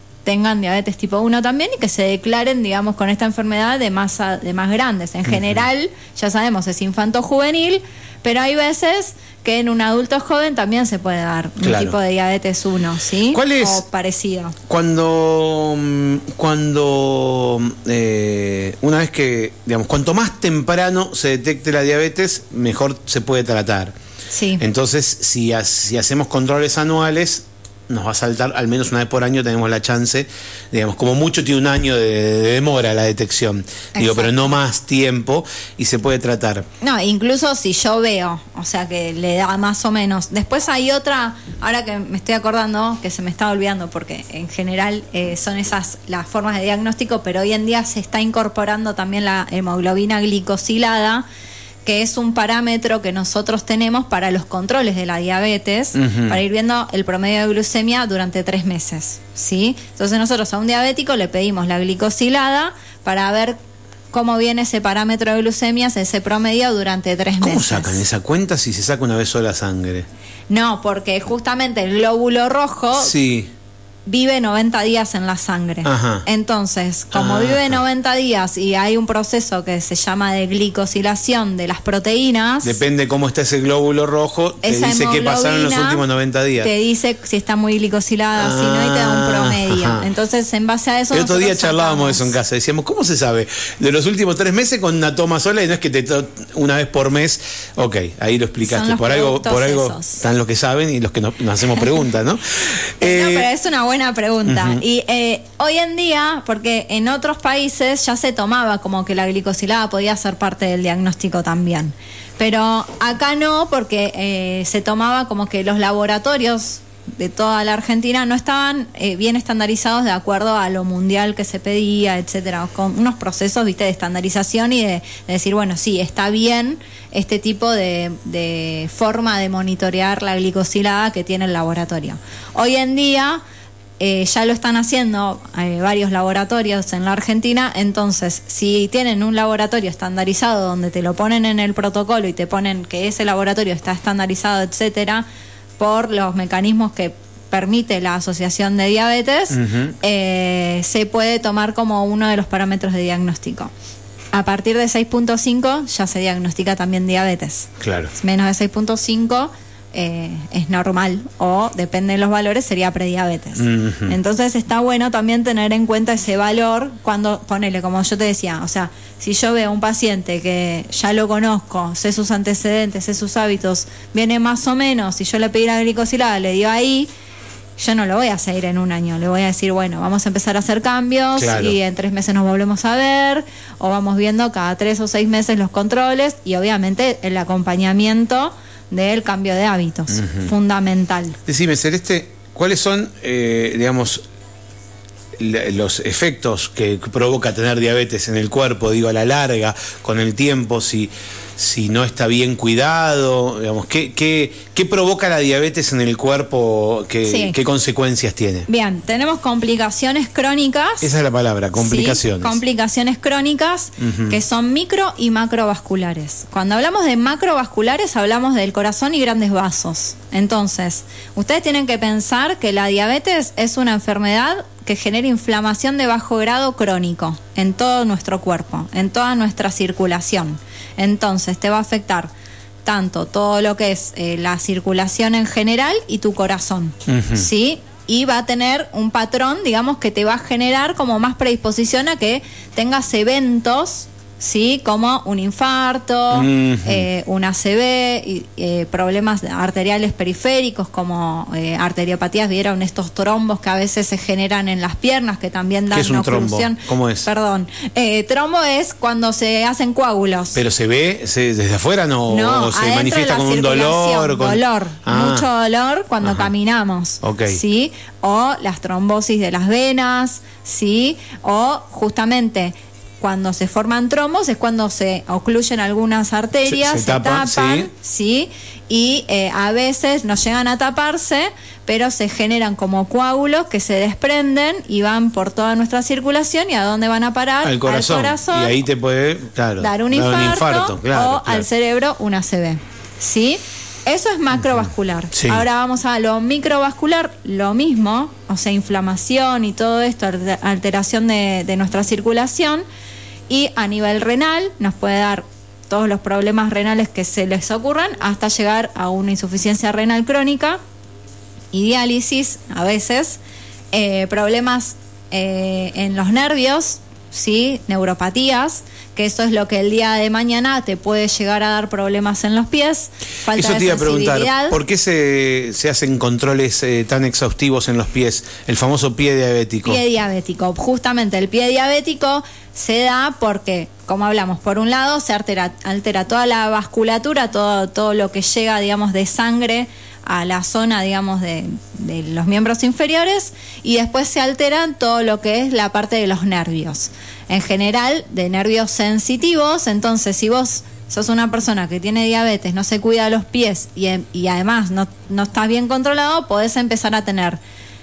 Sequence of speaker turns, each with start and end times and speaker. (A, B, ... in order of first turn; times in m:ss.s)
0:00.2-0:14.6 A
0:11.6-0:12.0 B
0:13.3-0:13.8 B
0:14.7-0:23.9 B
0:24.3-0:24.6 A
0:24.6-0:36.7 B
0:34.0-0:34.6 A
0:36.8-0:51.2 A
0:51.8-1:03.6 A
0:56.0-0:56.4 B
1:04.1-1:08.0 A
1:07.4-1:10.1 B
1:10.5-1:13.1 A
1:13.0-1:13.5 B
1:14.1-1:22.8 A
1:15.8-1:16.2 B
1:17.1-1:17.8 B
1:22.6-1:26.7 B
1:24.6-1:26.0 A
1:26.6-1:32.3 A
1:28.4-1:30.1 B
1:31.1-1:43.5 B
1:38.6-1:40.2 A
1:43.0-2:13.4 A
1:44.5-1:44.8 B
2:14.0-2:25.2 A
2:25.8-2:33.7 A
2:29.5-2:30.0 B
2:34.3-2:57.1 A
2:37.8-2:38.1 B
2:43.6-2:44.2 B
2:57.8-3:11.4 A
3:01.4-3:01.8 B
3:10.1-3:10.5 B
3:11.5-3:14.2 B
3:15.4-3:28.7 B
3:27.3-3:27.6 A
3:28.7-3:31.1 A
3:31.0-3:32.6 B
3:31.8-3:52.3 A
3:34.0-3:34.4 B
3:52.8-4:20.6 A
3:57.1-3:57.5 B
4:06.3-4:07.1 B
4:15.9-4:17.3 B
4:20.5-4:25.5 B
4:22.3-4:48.8 A
4:26.2-4:26.5 B
4:27.2-4:27.6 B
4:36.7-4:37.9 B
4:47.6-4:51.7 B
4:49.8-5:02.8 A
4:55.3-4:55.6 B
5:03.5-5:10.8 A
5:11.7-5:13.4 A
5:13.9-5:24.8 A
5:23.5-5:30.0 B
5:29.8-5:57.6 A